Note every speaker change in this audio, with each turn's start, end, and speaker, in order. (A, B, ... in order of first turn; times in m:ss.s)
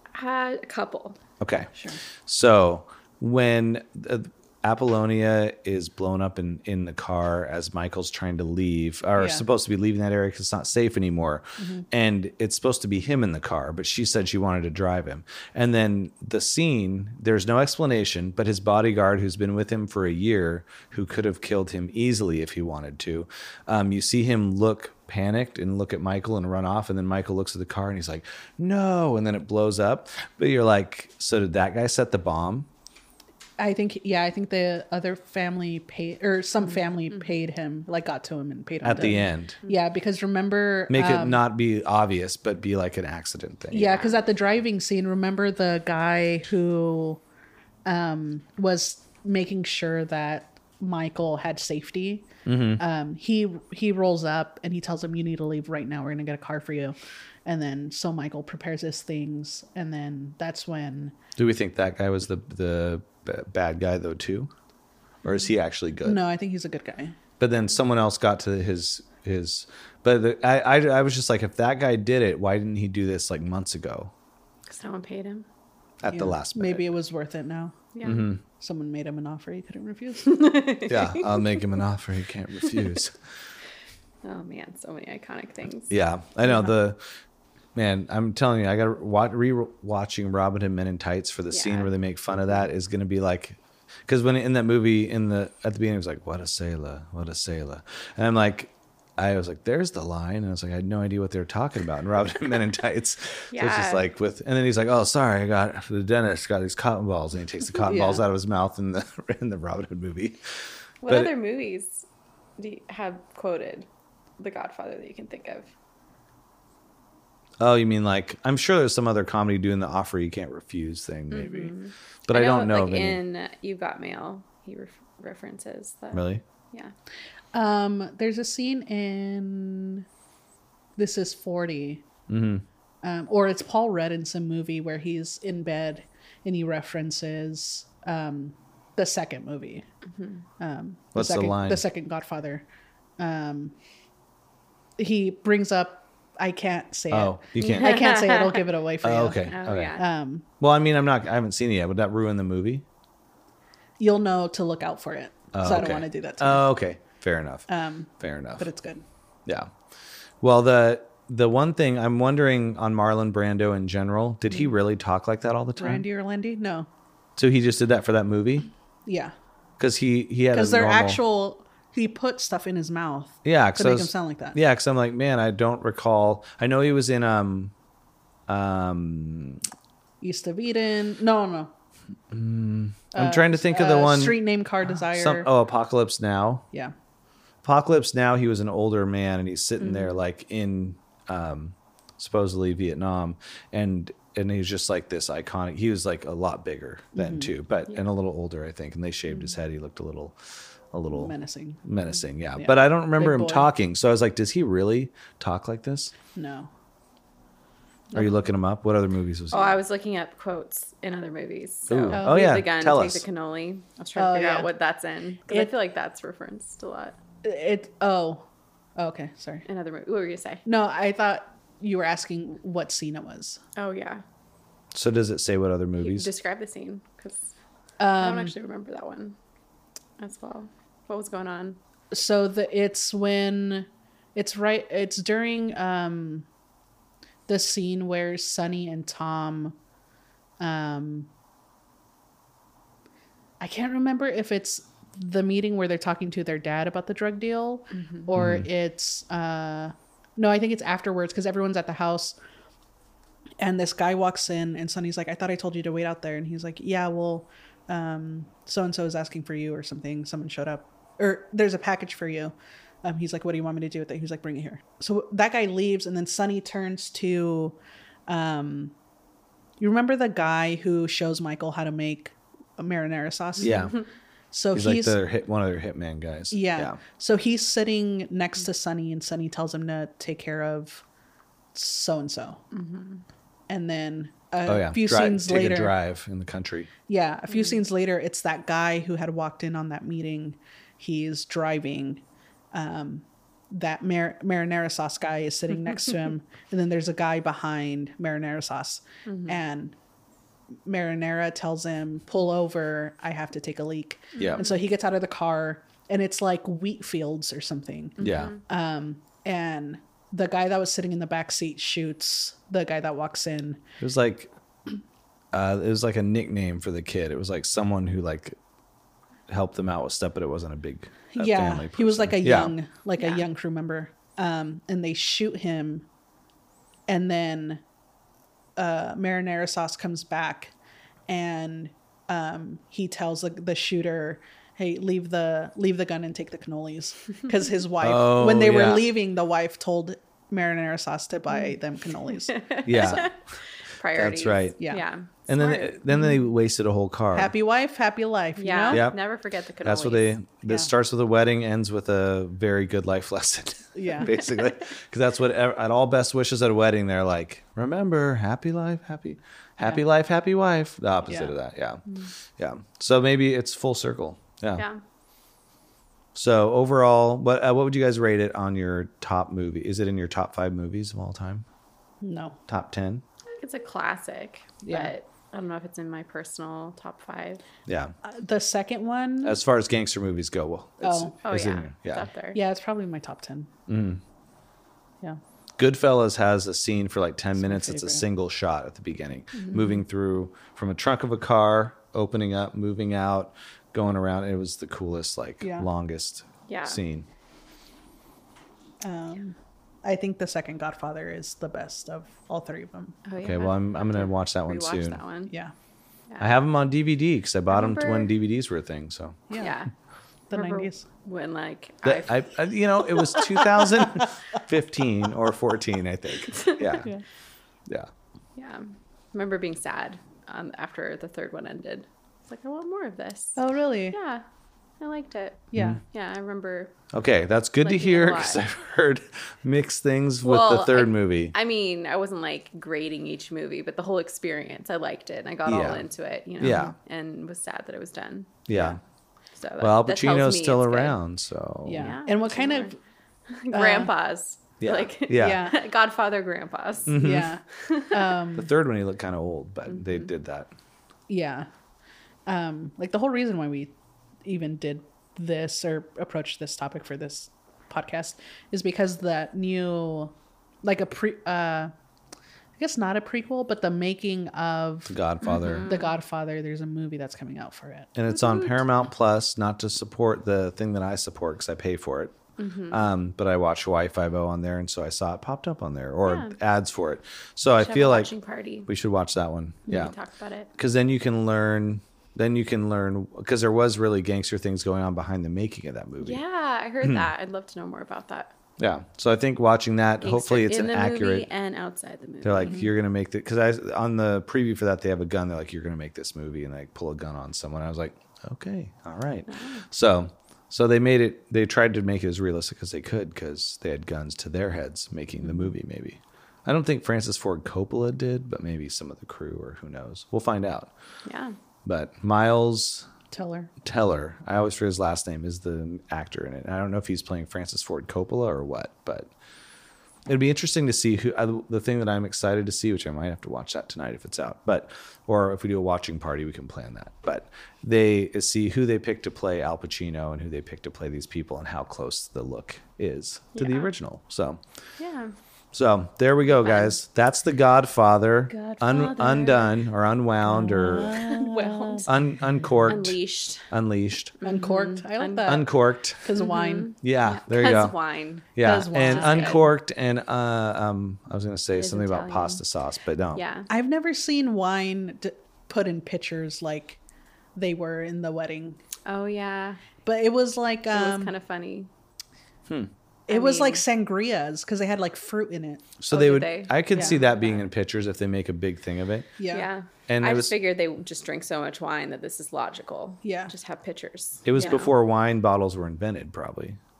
0:00.1-0:01.2 A
0:01.4-0:32.7 B
0:09.2-0:09.4 C
0:11.6-0:11.8 C
0:33.6-0:41.4 C
0:38.8-0:39.6 B
0:40.9-0:44.1 B
0:43.7-0:47.2 C
0:47.8-0:52.3 C
0:52.4-0:52.8 B
0:52.8-1:01.1 C
1:01.4-1:04.5 B
1:05.2-1:06.2 B
1:06.0-1:07.2 C
1:07.4-1:14.1 B
1:14.7-1:15.4 A
1:16.0-1:16.9 B
1:16.1-1:17.9 C
1:17.9-1:18.3 A
1:18.0-1:18.4 B
1:18.4-1:20.4 C
1:20.2-1:21.6 A
1:20.8-1:23.1 B
1:24.2-1:25.9 A
1:25.9-1:27.0 B
1:27.7-1:50.5 B
1:31.5-1:31.9 A
1:43.5-1:44.0 A
1:47.8-1:48.2 C
1:51.0-1:52.0 A
1:52.6-1:53.9 A
1:54.4-1:55.7 A
1:57.6-2:01.7 B
2:01.3-2:06.9 A
2:02.3-2:03.2 B
2:06.1-2:06.4 B
2:07.5-2:10.0 C
2:11.0-2:12.1 C
2:12.3-2:12.6 B
2:13.0-2:19.8 C
2:20.1-2:20.4 A
2:20.6-2:22.6 C
2:21.1-2:21.8 B
2:23.2-2:23.7 C
2:25.0-2:30.4 C
2:27.1-2:28.0 B
2:27.6-2:28.6 A
2:29.0-2:30.0 B
2:29.4-2:30.0 A
2:30.6-2:32.8 B
2:34.0-2:36.7 C
2:35.5-2:37.7 B
2:37.7-2:39.0 C
2:38.2-2:38.7 B
2:40.4-2:46.0 B
2:45.8-2:46.9 C
2:47.4-2:48.7 B
2:49.0-2:49.3 C
2:49.8-2:51.2 B
2:50.5-2:54.6 C
2:53.4-2:57.7 B
2:58.5-2:59.6 B
3:00.2-3:01.7 C
3:02.3-3:06.6 B
3:03.1-3:05.5 C
3:07.6-3:20.4 B
3:09.8-3:10.2 A
3:17.1-3:17.5 C
3:20.9-3:26.1 B
3:21.1-3:21.8 C
3:22.6-3:23.7 C
3:26.3-3:26.7 C
3:28.1-3:29.8 B
3:29.5-3:37.2 A
3:31.9-3:33.2 B
3:32.1-3:32.5 C
3:34.2-3:34.7 C
3:37.4-3:38.4 C
3:39.0-3:39.6 C
3:39.7-3:40.6 A
3:40.6-3:43.6 C
3:43.8-3:44.2 A
3:44.9-3:46.3 B
3:46.0-3:47.5 A
3:48.0-3:48.5 C
3:48.1-3:49.4 A
3:50.2-3:51.8 A
3:52.1-3:56.5 C
3:57.5-3:59.8 C
4:00.6-4:01.3 C
4:03.6-4:12.4 C
4:07.9-4:08.3 A
4:08.3-4:08.7 B
4:13.6-4:28.9 C
4:29.8-4:33.9 C
4:33.6-4:34.0 B
4:34.5-4:35.2 C
4:34.7-4:37.0 B
4:36.5-4:41.0 C
4:41.7-4:42.6 C
4:42.7-4:43.2 A
4:43.7-4:45.9 C
4:44.6-4:46.9 B
4:47.1-5:00.0 C
4:47.5-4:47.8 A
4:59.3-4:59.6 A
5:00.8-5:13.8 C
5:04.4-5:04.7 A
5:04.4-5:04.6 B
5:08.2-5:08.6 A
5:08.2-5:08.5 B
5:14.0-5:14.5 B
5:15.5-5:18.6 B
5:19.5-5:22.7 B
5:21.3-5:26.0 C
5:23.2-5:23.4 A
5:27.1-5:27.8 C
5:28.8-5:30.7 C
5:31.3-5:43.3 C
5:38.0-5:39.1 B
5:42.5-5:43.4 A
5:42.8-5:43.3 B
5:44.0-5:46.3 A
5:44.1-5:44.8 B
5:44.8-5:45.0 C
5:45.4-5:47.5 B
5:47.3-5:49.1 C
5:48.6-5:50.4 A
5:48.9-5:49.2 B
5:49.8-6:02.0 B
5:50.7-5:50.9 C
5:53.9-5:54.3 C
5:54.2-5:54.5 A
6:01.3-6:01.5 C
6:02.6-6:04.8 B
6:06.3-6:11.6 B
6:12.2-6:12.6 C
6:12.7-6:13.2 B
6:13.6-6:17.6 A
6:14.8-6:15.1 C
6:17.9-6:18.1 B
6:18.2-6:19.6 C
6:19.4-6:22.3 B
6:21.0-6:21.3 C
6:21.4-6:22.6 A
6:22.5-6:23.7 C
6:23.9-6:24.2 B
6:25.8-6:37.3 B
6:27.6-6:28.2 C
6:35.6-6:35.9 C
6:36.7-6:37.0 A
6:39.0-6:43.2 C
6:43.2-6:45.5 A
6:43.4-6:45.2 B
6:46.3-6:46.6 A
6:46.4-6:49.4 B
6:47.7-6:48.3 A
6:49.5-6:49.8 C
6:49.6-6:49.9 A
6:50.5-6:52.6 A
6:50.5-6:51.0 C
6:52.0-6:57.1 B
6:53.4-6:54.3 C
6:56.5-6:57.0 A
6:58.6-7:04.4 A
7:03.6-7:04.2 C
7:05.0-7:06.9 A
7:05.7-7:06.0 B
7:07.1-7:11.5 B
7:07.8-7:08.6 A
7:10.4-7:19.0 A
7:15.6-7:16.0 B
7:16.6-7:16.9 B
7:18.7-7:19.0 B
7:19.6-7:21.2 A
7:19.8-7:22.2 B
7:21.8-7:23.0 C
7:21.9-7:22.9 A
7:23.5-7:28.3 A
7:23.7-7:24.1 C
7:24.8-7:25.7 B
7:25.3-7:25.8 C
7:27.1-7:27.5 B
7:27.2-7:28.7 C
7:28.5-7:30.7 B
7:29.9-7:30.3 A
7:31.3-7:31.7 C
7:32.5-7:33.9 C
7:34.4-7:41.9 C
7:42.8-7:45.2 C
7:45.1-7:45.9 B
7:45.4-7:46.2 A
7:45.8-7:48.1 C
7:48.2-7:52.4 B
7:48.5-7:48.8 A
7:52.6-7:53.0 A
7:52.9-7:58.3 B
7:56.2-7:56.6 A
7:57.8-7:58.9 A
7:58.8-8:00.1 B
7:59.9-8:00.7 A
8:00.8-8:06.4 B
8:06.2-8:08.5 A
8:08.8-8:11.5 B
8:10.2-8:12.8 A
8:12.4-8:30.9 B
8:12.6-8:12.9 C
8:19.5-8:19.8 A
8:31.2-8:31.5 A
8:31.8-8:33.1 B
8:33.3-8:33.7 C
8:33.8-8:39.3 B
8:40.3-8:54.6 B
8:53.5-8:53.9 A
8:55.0-8:55.3 A
8:55.7-9:01.2 B
8:56.5-8:57.0 A
8:58.5-8:59.8 A
9:00.4-9:02.1 C
9:00.9-9:02.1 A
9:02.0-9:04.4 B
9:02.8-9:03.7 A
9:04.4-9:05.6 A
9:04.4-9:06.9 C
9:05.4-9:06.2 B
9:06.3-9:09.7 A
9:07.0-9:08.0 B
9:08.5-9:13.4 B
9:08.6-9:09.7 C
9:11.7-9:12.6 A
9:13.3-9:13.7 A
9:13.7-9:17.0 C
9:17.6-9:18.8 C
9:19.0-9:19.8 A
9:20.0-9:21.3 C
9:20.9-9:21.9 A
9:23.3-9:26.0 C
9:23.3-9:23.8 A
9:26.0-9:29.3 B
9:26.1-9:27.7 A
9:26.9-9:27.2 C
9:29.4-9:29.7 C
9:29.5-9:34.9 A
9:30.1-9:30.5 B
9:33.2-9:33.5 C
9:34.4-9:36.8 B